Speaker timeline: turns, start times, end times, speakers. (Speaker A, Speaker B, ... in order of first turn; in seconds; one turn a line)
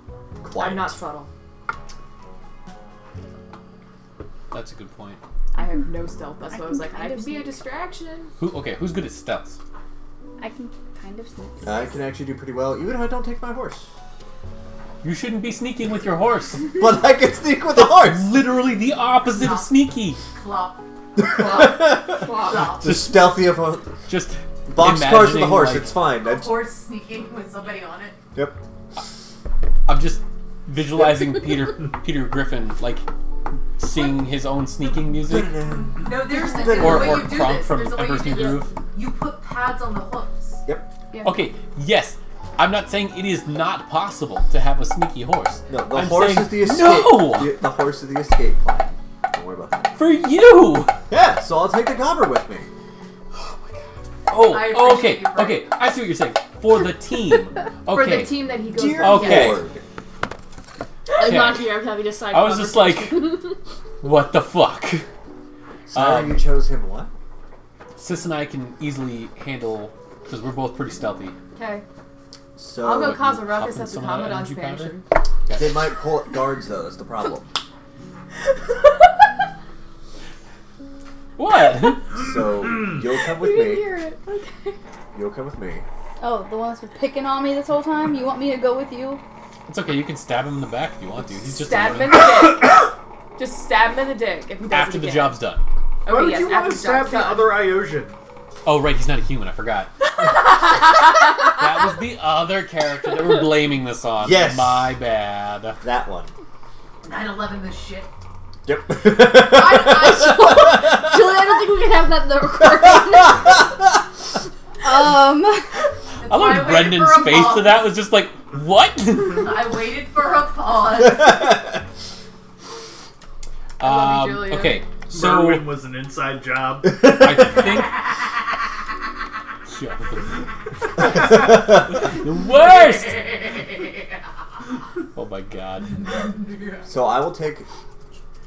Speaker A: 0.4-1.0
Speaker B: 0.6-1.3
Speaker C: 4.5-5.2
Speaker B: 5.5-8.3
Speaker D: 6.5-7.6
Speaker C: 8.4-9.6
Speaker D: 10.4-12.0
Speaker A: 11.6-13.9
Speaker C: 15.0-16.8
Speaker A: 16.7-18.5
Speaker C: 17.7-20.2
Speaker E: 19.3-20.9
Speaker A: 21.2-23.9
Speaker B: 21.4-22.4
Speaker E: 21.4-23.1
Speaker C: 22.8-23.3
Speaker C: 24.1-26.0
Speaker A: 24.7-26.6
Speaker E: 26.1-28.2
Speaker C: 29.9-33.1
Speaker C: 33.8-35.6
Speaker E: 34.8-35.1
Speaker A: 35.2-37.4
Speaker E: 35.9-40.6
Speaker C: 36.6-38.7
Speaker A: 40.6-40.9
Speaker B: 41.1-41.4
Speaker C: 41.2-47.6
Speaker A: 45.7-50.0
Speaker C: 50.0-50.9
Speaker A: 51.1-52.7
Speaker C: 53.3-53.6
Speaker C: 54.3-59.6
Speaker E: 54.3-55.7
Speaker B: 57.9-59.6
Speaker A: 58.7-59.8
Speaker F: 61.1-63.6
Speaker C: 61.2-61.7
Speaker C: 62.3-63.4
Speaker C: 64.0-65.1
Speaker A: 65.9-67.1
Speaker C: 65.9-66.5
Speaker C: 68.0-71.4
Speaker B: 71.5-71.8
Speaker A: 72.6-73.3
Speaker B: 72.8-75.0
Speaker C: 73.0-75.8
Speaker A: 75.5-77.5
Speaker C: 81.4-82.2
Speaker A: 82.2-83.9
Speaker B: 83.2-84.8
Speaker A: 85.1-85.8
Speaker D: 86.2-89.2
Speaker C: 89.7-92.4
Speaker B: 91.5-95.4
Speaker C: 94.7-95.7
Speaker B: 96.0-97.7
Speaker G: 96.1-98.2
Speaker C: 98.7-99.9
Speaker C: 101.5-105.8
Speaker A: 104.2-105.0
Speaker A: 105.8-106.3
Speaker E: 107.0-108.1
Speaker A: 108.7-111.3
Speaker E: 109.4-110.3
Speaker F: 109.6-113.5
Speaker A: 112.9-113.5
Speaker D: 114.8-115.8
Speaker E: 116.2-117.9
Speaker C: 116.2-119.5
Speaker E: 119.3-121.5
Speaker C: 123.8-125.7
Speaker B: 123.8-124.9
Speaker G: 125.1-127.4
Speaker C: 127.0-128.1
Speaker A: 127.1-127.5
Speaker C: 129.7-133.4
Speaker A: 131.0-132.0
Speaker C: 135.1-136.3
Speaker A: 136.8-137.7